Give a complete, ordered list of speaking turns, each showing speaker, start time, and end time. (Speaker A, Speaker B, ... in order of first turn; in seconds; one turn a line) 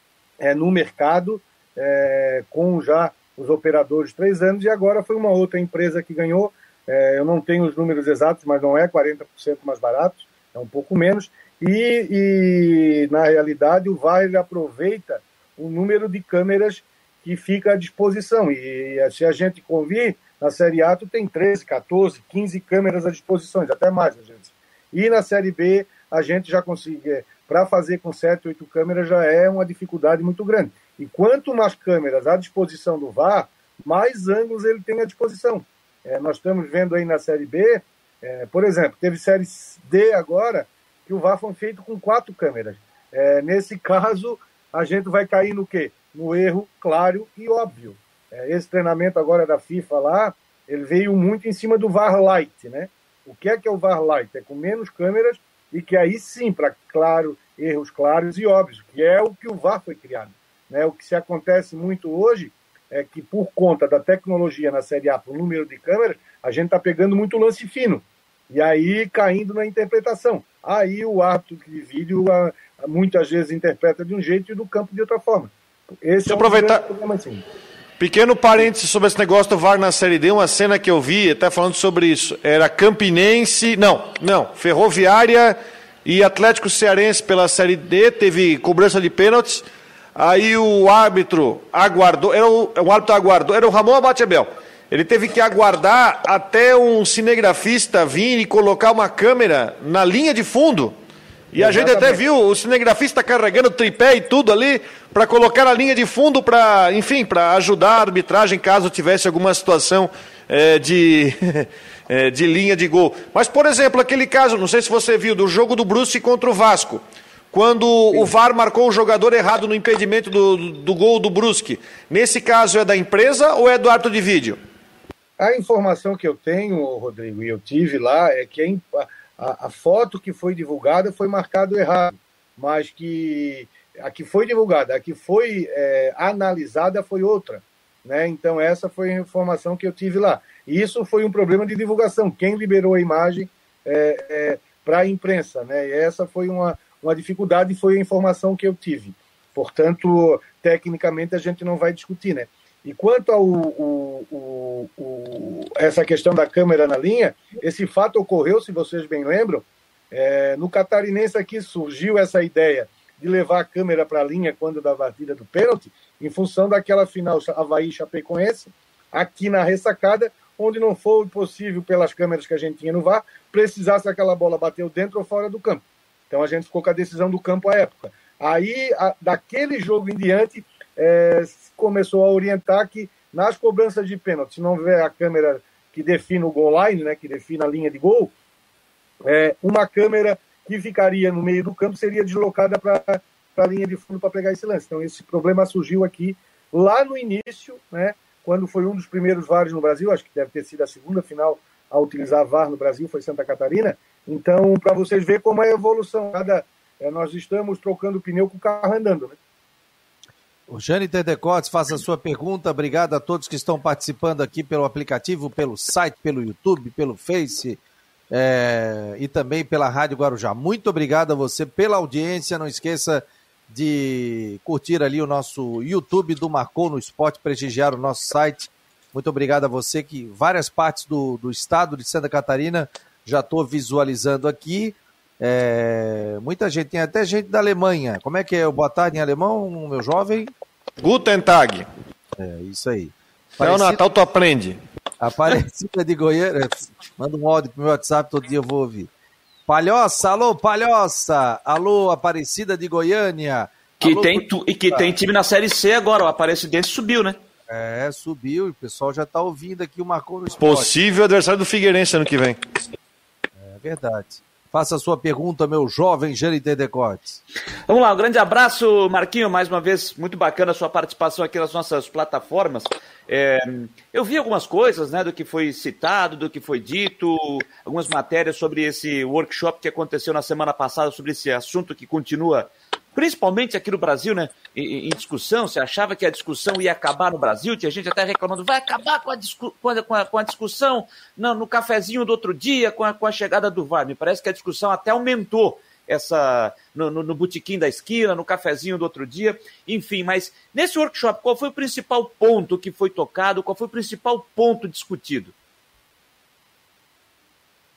Speaker A: 0.4-77.4
Speaker B: 76.3-76.8
Speaker B: 78.0-89.6
Speaker B: 90.2-100.9
Speaker B: 101.5-117.0
Speaker A: 101.6-102.2
Speaker B: 117.5-124.6
Speaker A: 125.4-188.3
Speaker A: 189.2-209.4
Speaker C: 210.7-217.8
Speaker C: 218.3-240.5
Speaker B: 241.0-241.9
Speaker C: 242.4-244.0
Speaker B: 243.6-244.8
Speaker C: 245.2-249.1
Speaker C: 249.7-255.1
Speaker D: 254.0-257.4
Speaker C: 257.7-260.9
Speaker B: 260.6-262.6
Speaker C: 263.6-267.4
Speaker D: 267.9-305.5